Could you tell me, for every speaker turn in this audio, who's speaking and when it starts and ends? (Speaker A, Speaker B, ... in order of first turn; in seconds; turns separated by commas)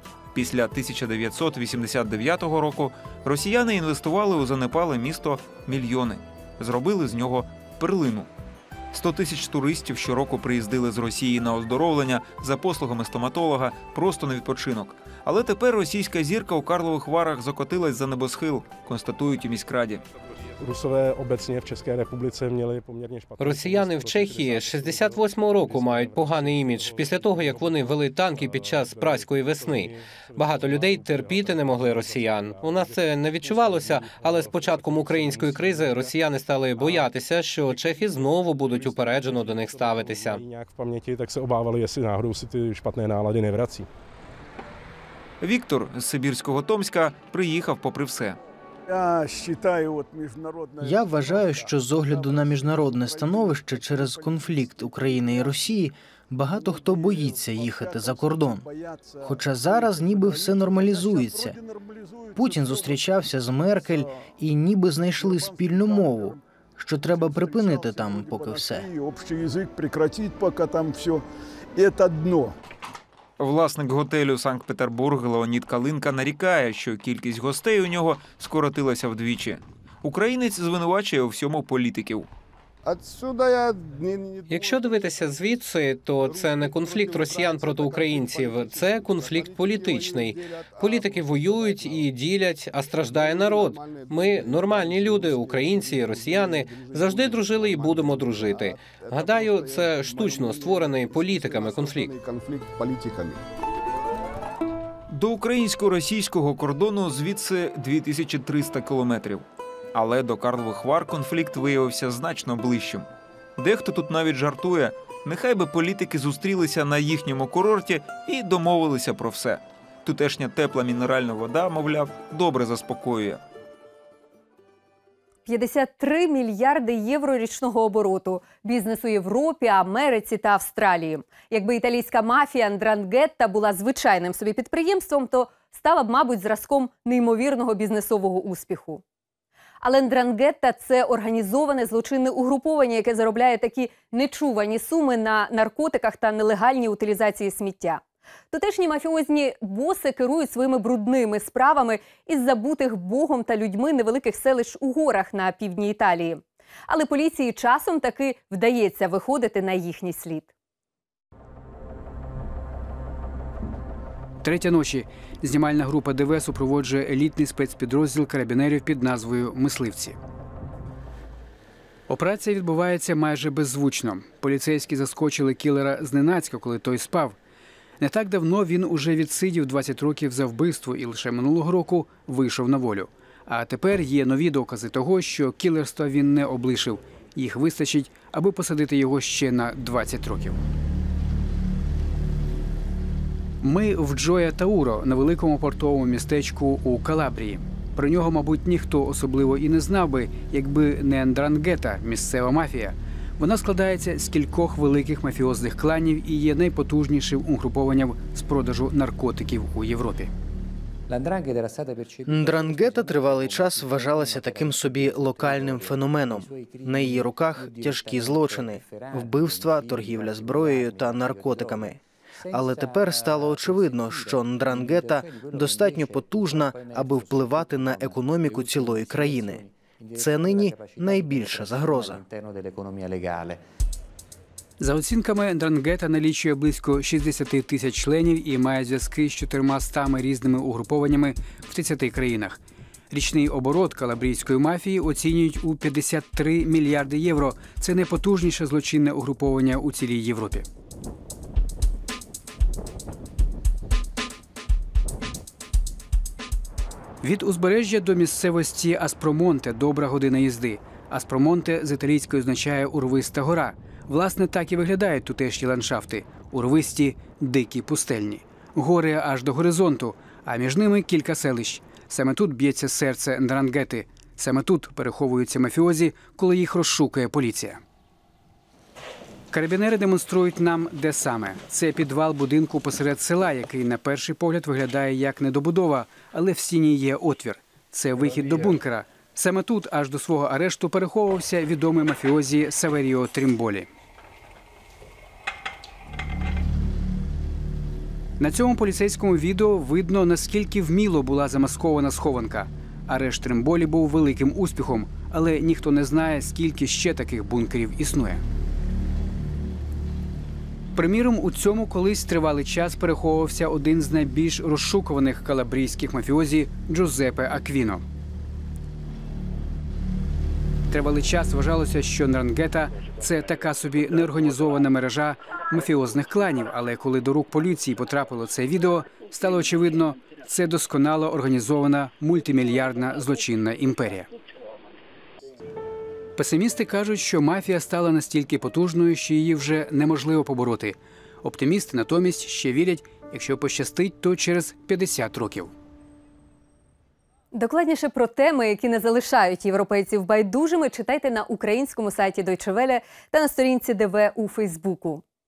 Speaker A: 0.3-8.3, Speaker A: 8.9-20.0, Speaker B: 20.6-27.3, Speaker C: 23.4-40.4, Speaker B: 28.9-32.9, Speaker B: 34.1-34.5, Speaker B: 39.3-43.9, Speaker A: 45.4-48.4, Speaker D: 48.9-50.7, Speaker E: 50.8-58.7, Speaker E: 59.2-61.6, Speaker E: 62.4-68.9, Speaker D: 69.0-71.2, Speaker D: 71.8-72.5, Speaker A: 73.4-82.3, Speaker C: 84.5-102.2, Speaker D: 102.1-103.4, Speaker A: 105.1-123.4, Speaker F: 125.5-139.0, Speaker F: 139.8-160.5, Speaker G: 164.4-170.2, Speaker G: 172.1-177.4, Speaker G: 178.0-190.6, Speaker G: 193.6-210.3, Speaker E: 212.3-232.2, Speaker G: 234.8-242.6, Speaker G: 243.1-250.7, Speaker G: 257.2-277.8, Speaker G: 279.5-293.9, Speaker G: 298.4-308.4, Speaker G: 311.0-318.0, Speaker G: 320.9-334.3, Speaker G: 336.4-345.7, Speaker F: 347.5-355.2